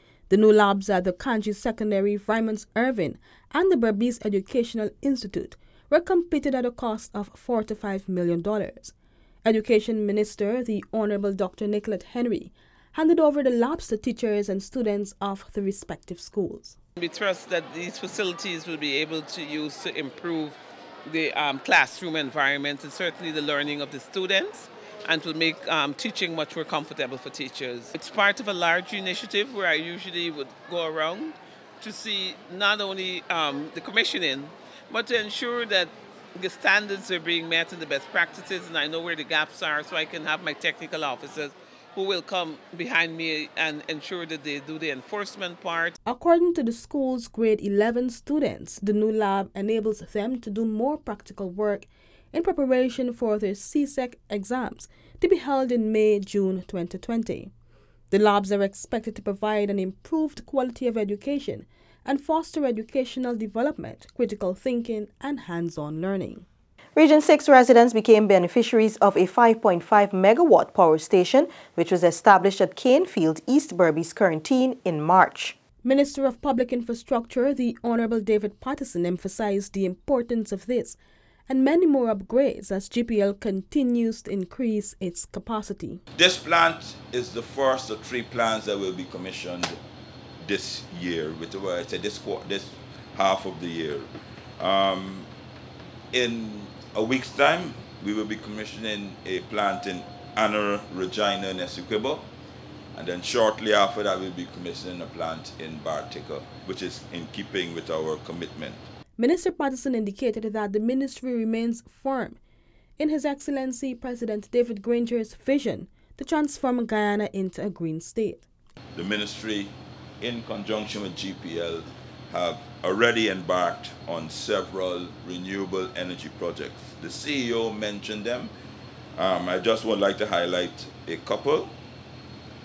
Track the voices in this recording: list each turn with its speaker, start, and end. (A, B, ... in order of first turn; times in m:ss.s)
0:00.3-0:16.8 A
0:17.0-0:46.0 B
0:46.0-0:57.5 A
0:58.1-1:06.4 A
1:07.0-1:15.6 C
1:15.8-1:26.0 A
1:26.1-1:29.8 D
1:30.4-1:35.3 D
1:36.1-1:42.3 D
1:42.9-1:48.8 D
1:49.2-1:52.4 A
1:53.0-1:58.5 A
1:58.9-2:08.5 D
2:09.2-2:11.7 D